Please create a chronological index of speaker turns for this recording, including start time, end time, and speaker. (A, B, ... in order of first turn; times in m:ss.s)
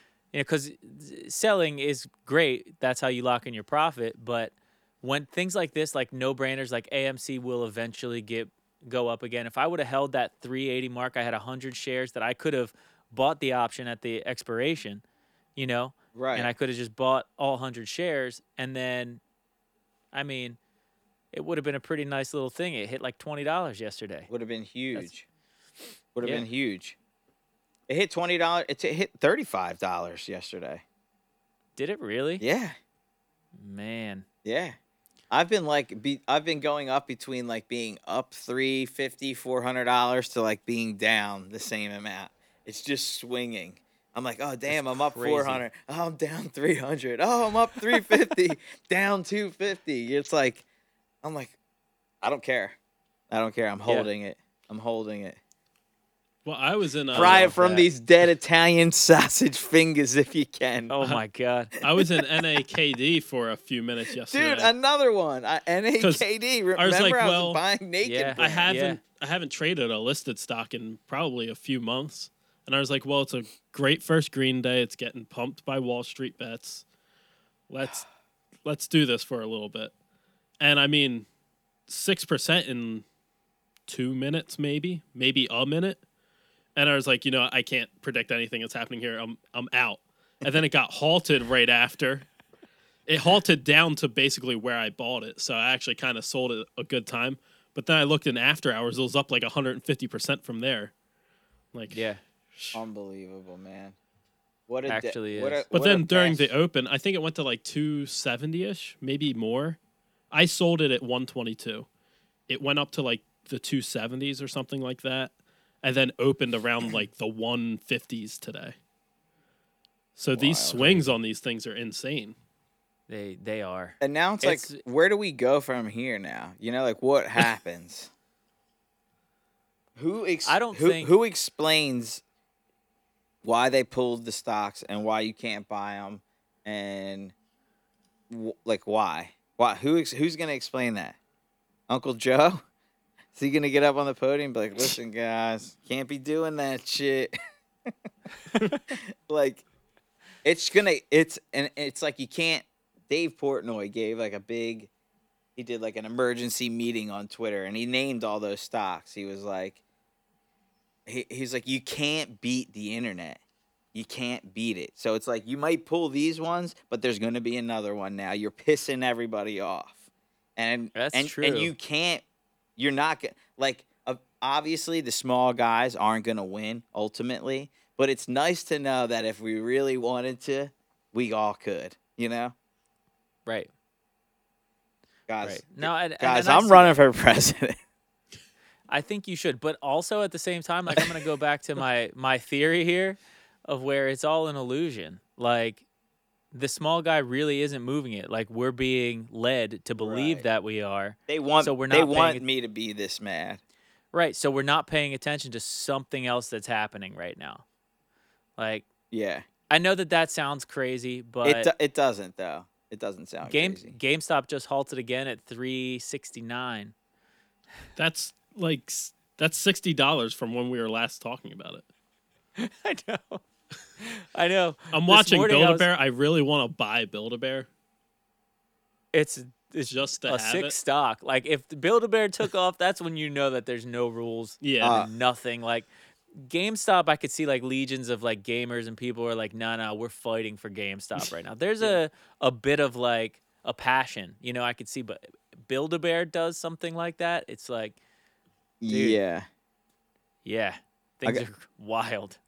0:00.3-0:15.0 A
0:15.6-0:19.2 A
0:16.1-0:16.5 B
0:20.1-0:20.6 A
0:21.3-0:24.3 A
0:24.3-0:25.2 B
0:26.1-0:27.0 B
0:27.9-0:30.8 B
0:31.8-0:32.4 A
0:32.4-0:32.8 B
0:33.6-0:34.2 A
0:34.4-0:34.8 B
0:35.3-0:50.6 B
0:44.7-0:45.6 A
0:51.2-0:51.5 B
0:52.2-0:52.8 B
0:53.3-0:55.4 B
0:56.4-0:57.5 C
0:57.1-1:00.9 B
0:57.1-0:57.9 A
1:00.9-1:01.7 A
1:01.8-1:04.7 C
1:04.3-1:08.7 B
1:06.0-1:07.6 C
1:08.0-1:09.0 A
1:08.4-1:16.8 C
1:17.7-1:18.0 C
1:18.6-1:19.9 C
1:20.6-1:21.2 C
1:21.9-1:23.0 C
1:23.9-1:26.0 C
1:26.8-1:32.2 C
1:33.1-1:40.9 C
1:41.9-1:42.2 A
1:42.6-1:42.8 C
1:42.7-1:44.0 B
1:44.7-1:46.5 B
1:44.8-1:45.6 A
1:45.7-1:49.8 C
1:50.3-1:51.9 C
1:52.5-1:58.7 C
2:00.2-2:02.3 C
2:00.4-2:01.1 B
2:03.1-2:04.8 A
2:04.0-2:08.1 B
2:10.0-2:12.2 B
2:10.4-2:11.1 A
2:13.4-2:17.3 B
2:18.3-2:21.2 B
2:21.9-2:22.6 B
2:23.3-2:27.3 B
2:28.8-2:29.6 B
2:30.4-2:34.9 B
2:35.6-2:39.8 B
2:41.1-2:43.4 B
2:43.9-2:50.0 B
2:50.6-2:52.2 B
2:50.9-2:51.7 A
2:52.8-3:02.5 B
3:05.3-3:07.8 B
3:05.4-3:07.0 A
3:08.9-3:15.8 A
3:16.5-3:22.4 A
3:20.0-3:20.4 B
3:21.3-3:23.6 B
3:24.1-3:27.6 A
3:28.6-3:28.9 A
3:29.1-3:29.4 B
3:29.7-3:31.7 A
3:31.4-3:34.0 B
3:33.4-3:36.9 A
3:38.0-3:41.8 C
3:42.6-3:43.4 A
3:44.0-3:45.9 A
3:44.9-3:47.7 C
3:49.1-4:08.0 A
3:49.9-3:50.8 C
3:54.6-3:55.0 C
3:54.8-3:55.1 B
4:08.8-4:09.4 B
4:08.9-4:09.2 A
4:10.4-4:12.4 A